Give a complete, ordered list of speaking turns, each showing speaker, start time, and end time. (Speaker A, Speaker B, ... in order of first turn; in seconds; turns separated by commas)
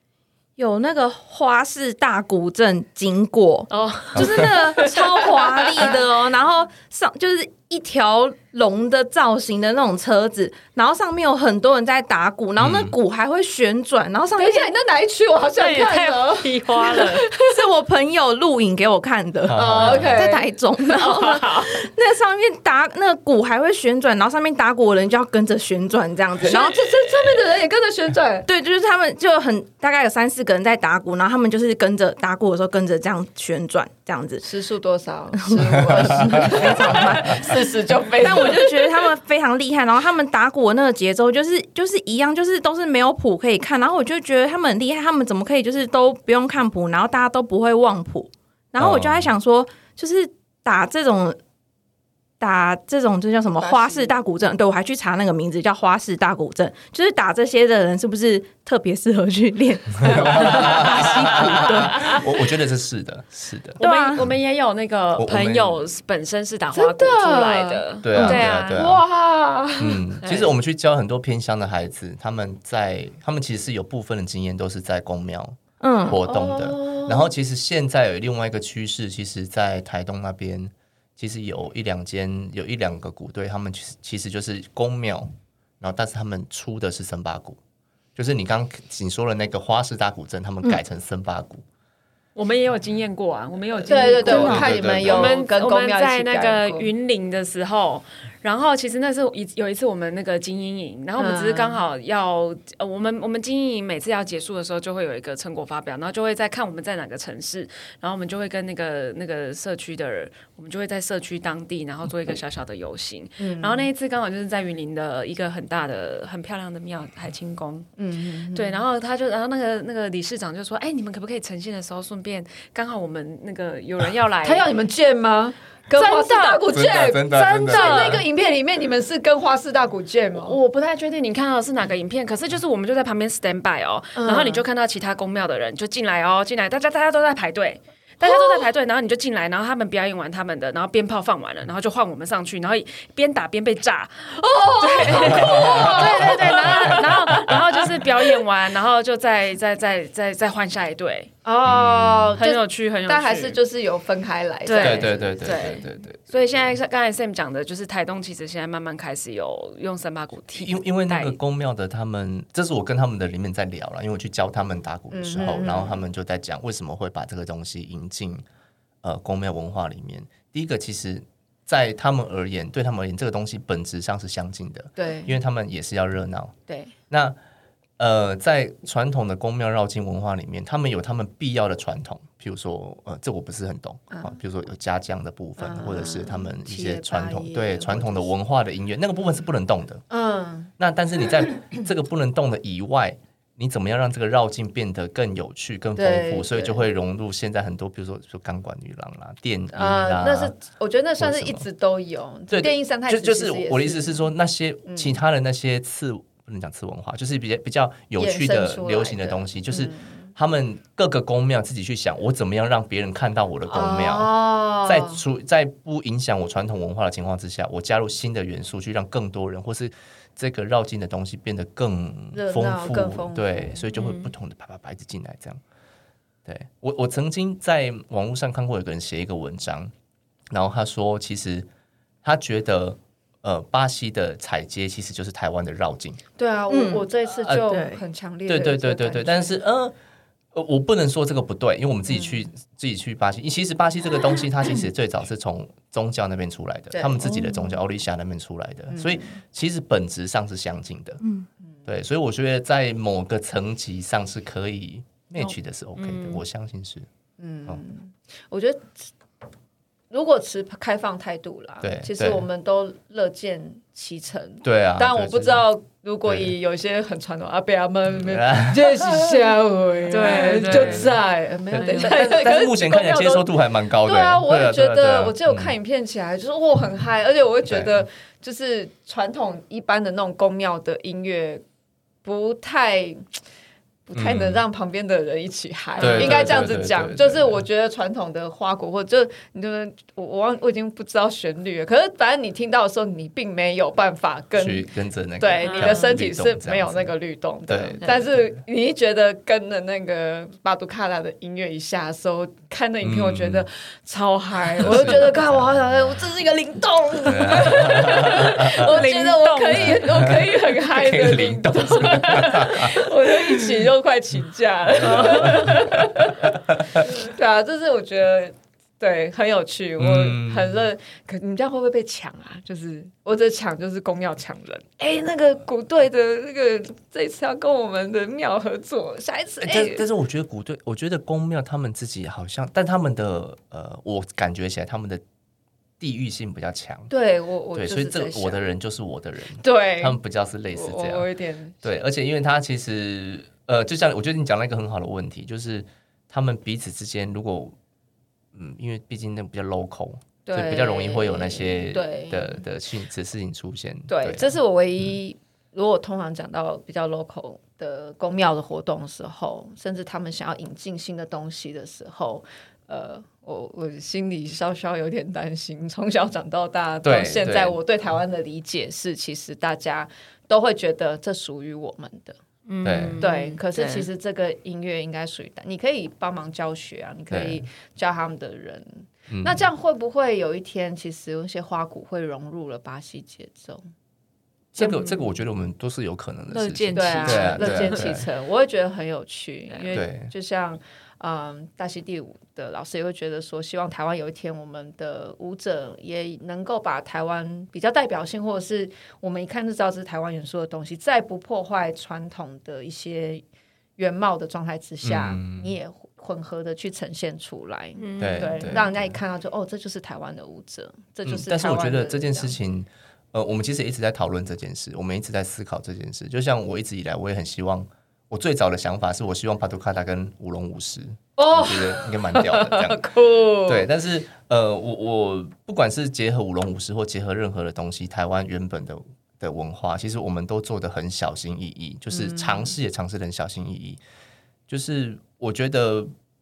Speaker A: 0.6-14.7, Speaker B: 3.7-5.9, Speaker C: 5.6-6.0, Speaker D: 12.6-13.0, Speaker C: 14.4-17.5, Speaker B: 15.6-17.3, Speaker A: 17.4-27.4, Speaker D: 19.5-20.2, Speaker C: 19.6-21.9, Speaker C: 26.4-28.5, Speaker A: 28.5-34.5, Speaker C: 34.4-39.1, Speaker A: 35.4-37.6, Speaker A: 38.2-51.4, Speaker D: 48.8-49.3, Speaker A: 52.4-62.4, Speaker C: 53.6-54.2, Speaker D: 60.0-64.3, Speaker B: 63.8-68.8, Speaker A: 63.8-64.3, Speaker D: 65.2-65.8, Speaker C: 66.7-67.8, Speaker D: 68.0-69.0, Speaker A: 68.2-68.5, Speaker C: 68.7-70.1, Speaker D: 69.8-87.6, Speaker B: 70.2-70.5, Speaker A: 75.8-76.2, Speaker C: 76.2-77.3, Speaker D: 88.2-91.6, Speaker B: 92.4-117.9, Speaker C: 93.9-96.9, Speaker D: 93.9-95.4, Speaker A: 94.2-94.8, Speaker C: 101.2-101.8, Speaker C: 113.4-113.9, Speaker C: 118.0-118.8, Speaker B: 118.5-124.7, Speaker C: 124.4-130.6, Speaker B: 125.9-126.7, Speaker D: 126.7-128.2, Speaker B: 127.7-128.2, Speaker B: 130.4-151.3, Speaker C: 134.2-134.7, Speaker C: 138.2-138.7, Speaker C: 144.3-148.4, Speaker D: 145.1-147.5, Speaker C: 151.4-155.7, Speaker D: 151.7-152.4, Speaker B: 152.4-153.6, Speaker B: 154.7-161.4, Speaker D: 154.8-156.8, Speaker D: 160.6-168.4, Speaker C: 165.1-166.0, Speaker D: 169.0-176.6, Speaker C: 175.0-175.4, Speaker C: 176.7-176.9, Speaker D: 177.1-177.4, Speaker D: 178.0-190.0, Speaker C: 184.1-184.4, Speaker C: 185.6-188.3, Speaker C: 190.1-190.7, Speaker D: 190.8-200.6, Speaker C: 196.0-196.8, Speaker C: 199.7-204.3, Speaker D: 201.2-201.6, Speaker D: 202.5-225.6, Speaker C: 204.9-205.2, Speaker C: 208.2-210.3, Speaker C: 213.7-215.2, Speaker C: 222.3-223.9, Speaker B: 223.9-224.3, Speaker D: 226.5-229.9, Speaker D: 230.5-231.7, Speaker D: 232.2-236.2, Speaker C: 236.4-239.6, Speaker A: 236.7-237.1, Speaker D: 237.4-237.7, Speaker A: 237.7-238.0, Speaker D: 238.5-239.9, Speaker D: 240.5-251.2, Speaker C: 242.1-242.4, Speaker C: 246.9-247.5, Speaker A: 247.3-247.7, Speaker C: 248.9-249.4, Speaker D: 251.9-257.1, Speaker B: 255.4-256.4, Speaker C: 257.4-259.1, Speaker C: 260.1-281.6, Speaker D: 261.8-262.5, Speaker D: 264.6-265.6, Speaker D: 266.3-266.5, Speaker D: 268.1-269.4, Speaker B: 270.1-271.2, Speaker D: 270.3-271.2, Speaker D: 271.7-275.8, Speaker B: 271.7-272.5, Speaker D: 277.7-278.0, Speaker C: 282.2-283.3, Speaker C: 284.1-294.9, Speaker D: 284.1-284.6, Speaker B: 286.0-286.7, Speaker D: 286.0-287.6, Speaker D: 294.6-297.1, Speaker C: 295.4-330.1, Speaker B: 295.6-296.2, Speaker D: 297.7-298.4, Speaker D: 303.0-303.7, Speaker D: 304.8-305.9, Speaker D: 307.2-309.0, Speaker B: 307.7-310.3, Speaker D: 309.7-313.1, Speaker D: 314.9-317.1, Speaker B: 315.0-316.0, Speaker D: 320.0-320.9, Speaker D: 329.6-335.2, Speaker D: 336.0-337.1, Speaker C: 337.1-338.6, Speaker D: 337.7-341.3, Speaker C: 339.6-340.2, Speaker C: 340.7-341.8, Speaker D: 341.8-347.8, Speaker D: 348.5-354.5, Speaker C: 350.5-352.6, Speaker C: 354.1-372.4, Speaker D: 367.0-367.8, Speaker B: 372.7-374.1, Speaker D: 372.8-373.2, Speaker C: 373.2-383.8, Speaker D: 377.3-377.6, Speaker D: 379.3-379.7, Speaker D: 384.7-388.3, Speaker B: 384.8-385.3, Speaker B: 386.5-388.1, Speaker C: 386.9-403.4, Speaker B: 389.7-390.0, Speaker D: 389.9-390.3, Speaker C: 404.0-412.6, Speaker D: 405.0-405.7, Speaker B: 408.0-408.8, Speaker D: 408.2-409.1, Speaker D: 411.3-423.0, Speaker C: 421.4-423.9, Speaker D: 423.7-434.0, Speaker C: 432.1-432.7, Speaker D: 434.7-436.1